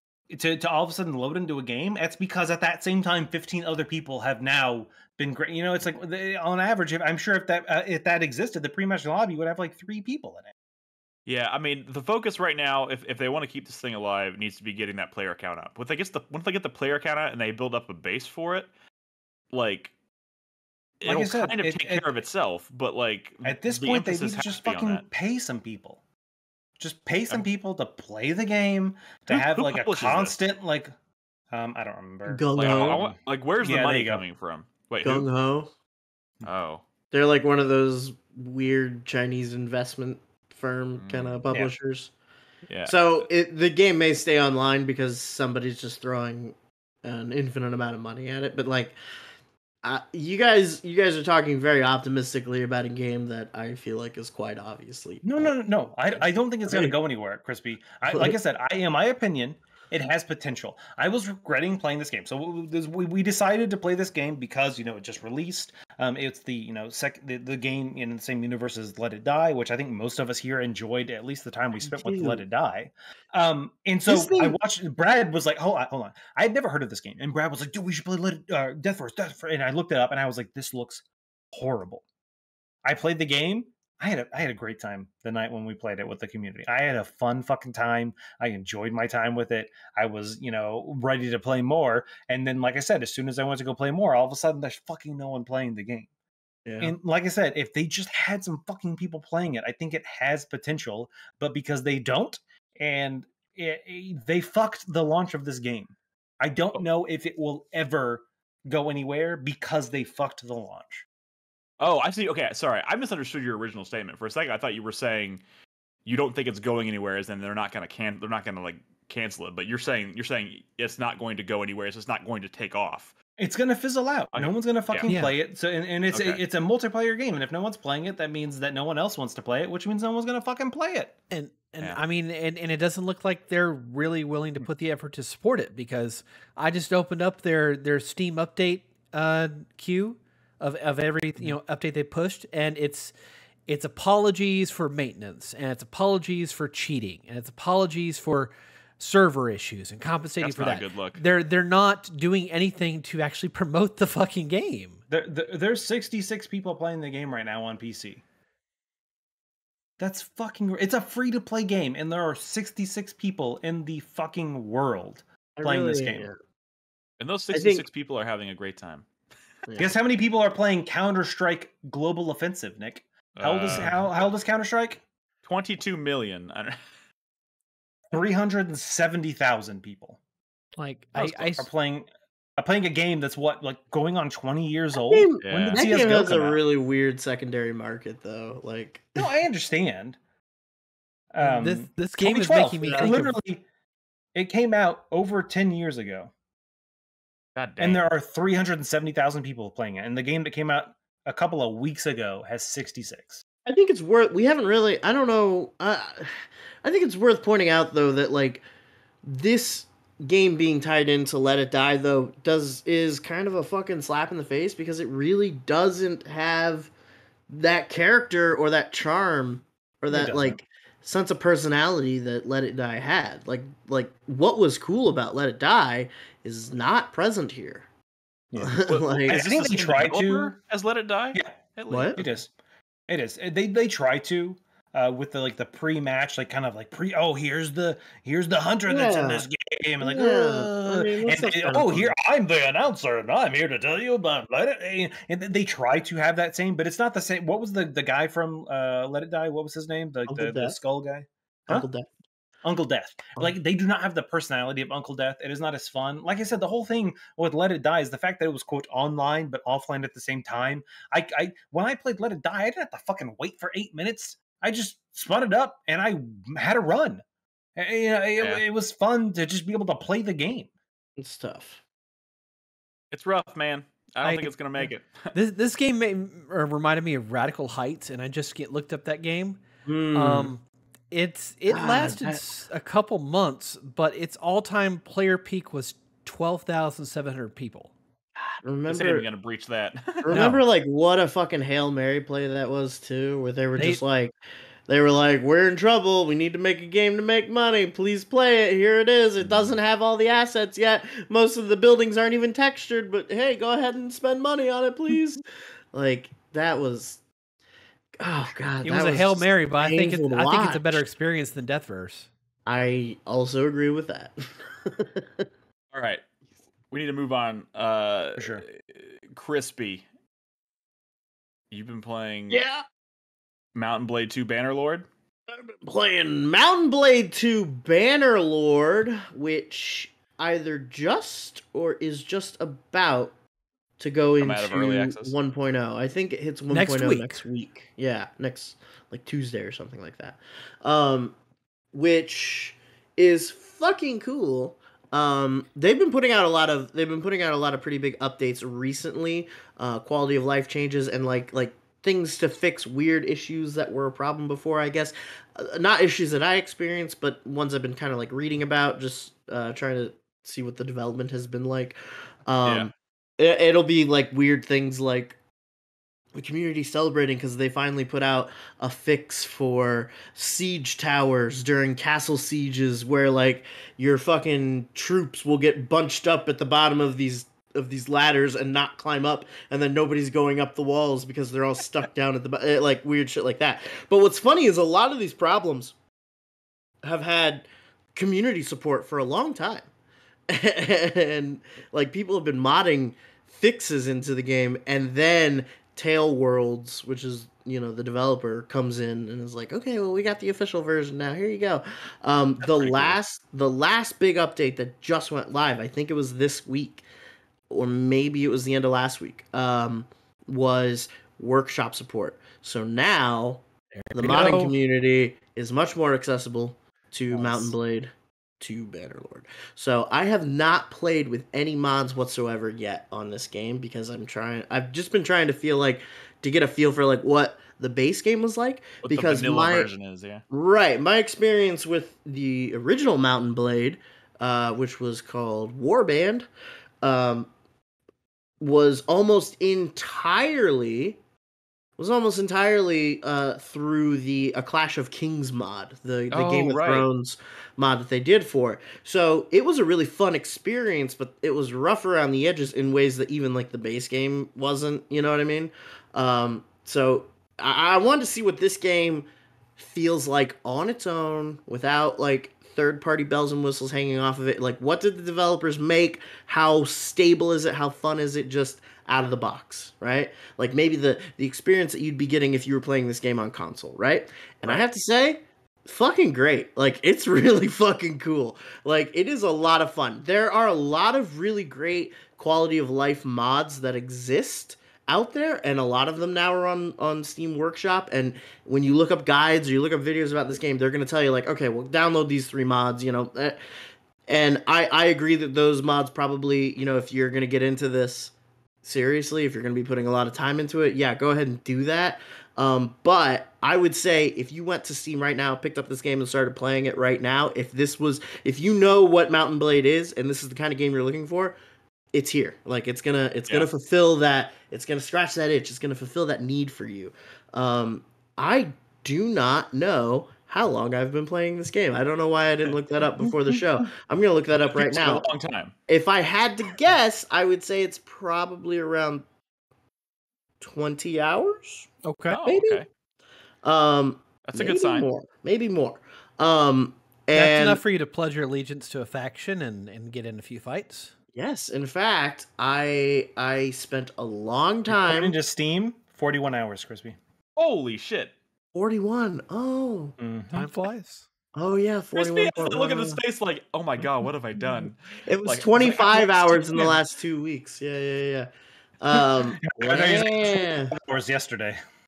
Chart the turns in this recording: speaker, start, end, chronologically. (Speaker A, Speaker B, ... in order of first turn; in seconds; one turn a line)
Speaker A: 0.3-10.5
Speaker B: 11.2-18.7
Speaker B: 19.5-19.9
Speaker B: 21.0-25.0
Speaker A: 21.0-22.1
Speaker A: 23.4-26.0
Speaker A: 26.8-30.9
Speaker B: 29.3-30.4
Speaker A: 31.5-33.1
Speaker C: 32.2-33.0
Speaker B: 32.5-35.3
Speaker A: 33.6-34.2
Speaker C: 35.0-35.7
Speaker B: 36.4-36.8
Speaker C: 37.1-42.1
Speaker B: 41.0-41.4
Speaker B: 42.7-43.3
Speaker C: 42.8-49.0
Speaker C: 49.8-55.5
Speaker A: 55.2-82.0
Speaker C: 56.7-56.9
Speaker C: 58.1-58.4
Speaker C: 71.8-72.4
Speaker C: 74.0-74.6
Speaker A: 82.8-96.1
Speaker C: 96.6-96.9
Speaker A: 96.8-111.0
Speaker B: 111.8-115.4
Speaker B: 116.0-123.1
Speaker A: 123.4-131.1
Speaker B: 124.3-125.1
Speaker D: 125.0-125.3
Speaker B: 126.1-126.4
Speaker D: 131.3-143.1
Speaker D: 143.7-155.0
Speaker B: 150.4-151.2
Speaker A: 155.1-158.2
Speaker A: 160.0-166.3
Speaker C: 165.6-166.4
Speaker B: 167.2-169.1
Speaker C: 167.5-167.8
Speaker C: 169.7-169.9
Speaker A: 169.8-175.0
Speaker B: 173.3-174.1
Speaker B: 175.4-176.8
Speaker A: 178.1-180.2
Speaker D: 180.8-181.7
Speaker A: 181.2-186.6
Speaker C: 185.0-189.3
Speaker B: 185.4-186.6
Speaker A: 189.2-190.2
Speaker A: 191.3-193.6
Speaker D: 191.4-193.3
Speaker C: 192.8-193.1
Speaker A: 194.3-196.3
Speaker B: 197.6-198.1
Speaker A: 197.8-203.4
Speaker C: 203.7-208.6
Speaker C: 209.2-216.9
Speaker C: 217.5-227.8
Speaker A: 220.1-220.6
Speaker A: 228.5-230.5
Speaker C: 228.6-229.5
Speaker B: 228.9-232.3
Speaker C: 231.9-232.2
Speaker A: 232.2-232.5
Speaker A: 233.1-251.8
Speaker C: 238.9-239.4
Speaker C: 240.0-242.1
Speaker C: 250.3-250.8
Speaker C: 251.7-252.1
Speaker A: 252.6-267.2
Speaker A: 267.8-270.7
Speaker C: 271.2-271.8
Speaker B: 273.1-275.3
Speaker D: 274.2-287.9
Speaker C: 279.9-280.5
Speaker C: 281.7-282.4
Speaker C: 288.4-289.2
Speaker B: 288.9-290.3
Speaker C: 290.2-294.3
Speaker D: 290.3-290.6
Speaker C: 294.9-305.4
Speaker C: 305.9-307.2
Speaker C: 308.2-311.0
Speaker D: 308.8-312.3
Speaker C: 312.6-315.4
Speaker B: 315.9-316.2
Speaker B: 316.9-320.0
Speaker A: 318.4-318.6
Speaker B: 321.7-322.6
Speaker C: 322.5-322.8
Speaker B: 323.7-325.1
Speaker C: 325.5-333.3
Speaker C: 334.0-341.3
Speaker B: 334.4-335.3
Speaker D: 336.7-337.4
Speaker C: 341.9-365.4
Speaker B: 362.6-362.9
Speaker C: 366.3-385.9
Speaker C: 387.0-389.9
Speaker C: 390.5-407.0
Speaker B: 402.6-403.1
Speaker C: 407.7-413.6
Speaker D: 414.0-414.7
Speaker C: 414.1-429.9
Speaker D: 417.3-417.7
Speaker B: 429.0-430.4
Speaker C: 430.5-436.5
Speaker C: 437.0-437.5
Speaker C: 438.6-441.2
Speaker C: 442.0-493.6
Speaker B: 446.3-447.1
Speaker C: 494.3-498.3
Speaker C: 498.8-511.6
Speaker C: 512.1-525.2
Speaker B: 524.6-525.7
Speaker C: 525.9-529.2
Speaker C: 530.6-531.9
Speaker D: 532.0-532.4
Speaker B: 532.3-532.9
Speaker C: 532.4-532.8
Speaker C: 533.6-537.8
Speaker B: 534.4-535.1
Speaker D: 537.3-541.1
Speaker C: 541.3-545.3
Speaker A: 544.9-547.2
Speaker B: 547.6-548.3
Speaker C: 548.7-550.1
Speaker A: 550.2-550.7
Speaker D: 550.5-551.3
Speaker C: 551.5-553.2
Speaker B: 552.1-556.9
Speaker C: 555.2-560.9
Speaker A: 559.1-561.8